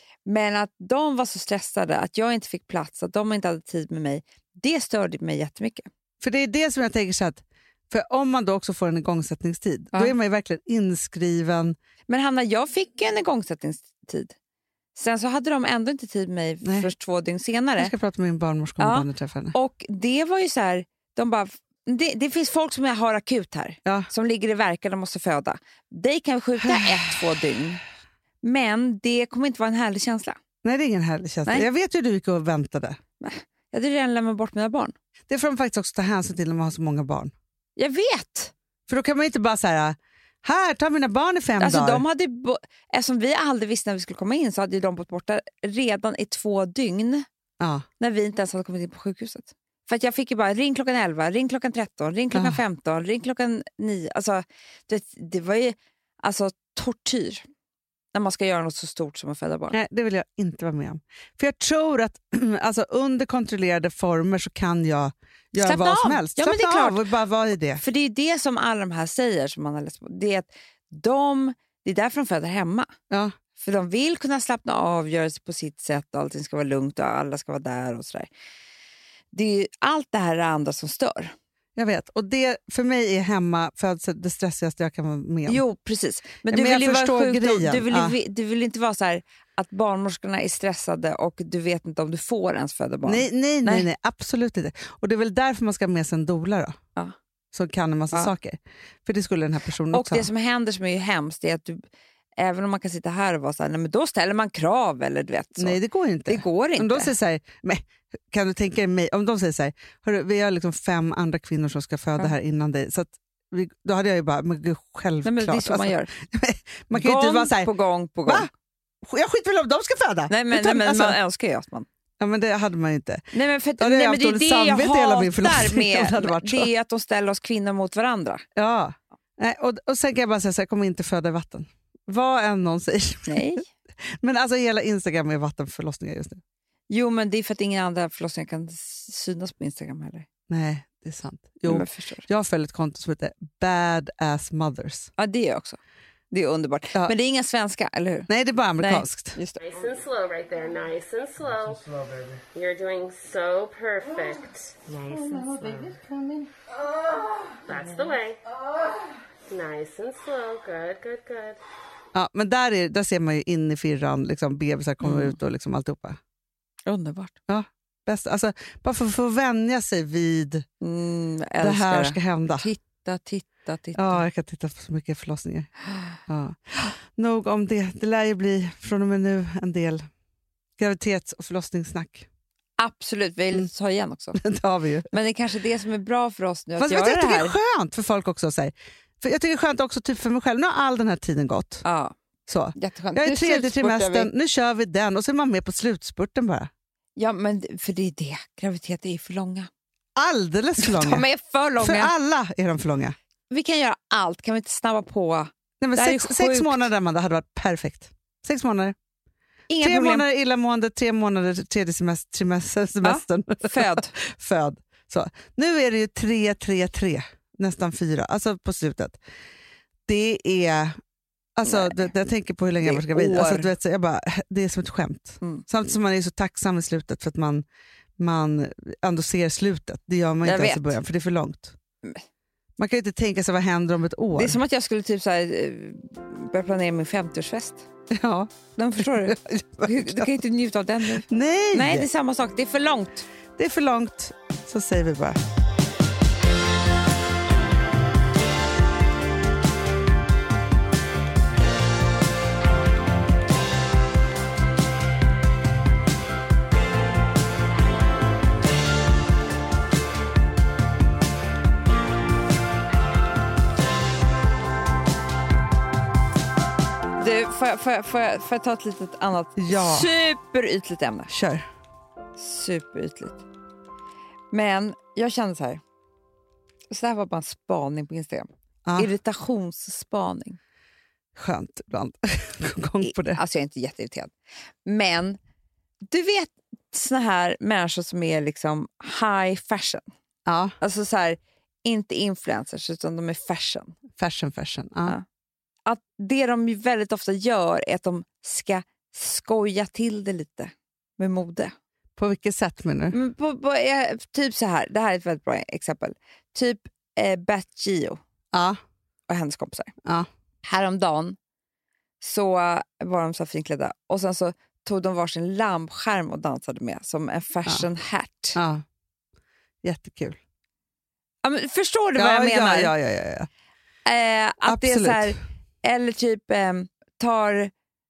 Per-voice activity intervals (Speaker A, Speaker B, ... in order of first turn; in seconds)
Speaker A: 0.3-5.9, 12.1-14.3, 14.9-17.9, 18.8-27.8, 28.4-30.4, 33.2-35.0, 37.8-38.5, 41.6-47.3, 48.0-57.4, 58.1-59.8, 65.6-67.0, 67.8-72.9, 73.6-78.3, 79.3-81.3, 85.5-93.9, 99.9-101.8, 102.4-107.2, 115.2-116.1, 116.9-118.5, 120.3-121.9, 123.3-128.4, 133.3-133.7, 136.9-140.3, 141.7-142.3, 145.2-145.8, 146.3-149.6, 165.0-165.4, 166.9-167.4, 170.8-174.2, 182.8-184.4, 185.1-187.6, 191.8-192.1, 192.8-194.3, 197.2-199.7, 200.8-202.1, 203.5-206.9, 209.7-210.2, 213.0-214.1, 221.7-222.1, 222.8-223.7, 230.4-231.0, 234.3-237.8, 238.8-243.3, 267.2-271.3, 272.4-273.4, 274.5-275.8, 276.9-280.6, 283.0-284.3, 284.9-285.4, 286.1-290.1, 290.8-294.0, 295.9-301.8, 303.1-308.2, 309.3-309.9, 310.6-311.4, 312.2-318.6, 321.4-322.9, 324.1-327.7
Speaker B: 6.2-11.8, 16.6-16.9, 17.8-19.6, 26.6-27.1, 30.6-33.0, 35.3-37.3, 38.9-42.0, 47.6-47.9, 52.3-52.6, 59.7-67.8, 81.8-85.6, 86.5-88.2, 93.1-96.8, 97.5-100.3, 105.6-117.7, 118.2-118.5, 119.0-121.2, 122.2-123.3, 123.8-126.7, 128.6-133.6, 134.2-136.4, 140.5-145.1, 148.3-149.4, 162.1-166.2, 167.5-170.7, 171.6-172.7, 173.9-175.7, 176.2-180.1, 180.8-182.3, 184.4-185.1, 186.8-191.8, 192.5-196.7, 200.2-201.2, 201.8-203.2, 205.8-209.0, 209.8-219.2, 220.1-221.0, 221.6-227.7, 228.2-231.8, 232.8-234.6, 238.1-240.3, 241.2-242.1, 243.6-245.4, 269.6-270.1, 271.3-271.7, 281.4-283.4, 290.5-290.7, 294.2-295.1, 302.2-303.2, 308.5-308.8, 318.6-318.8, 319.8-320.4, 322.2-323.5, 324.7-325.4
Speaker C: 149.7-151.9, 152.5-155.9, 157.7-158.4, 159.5-161.6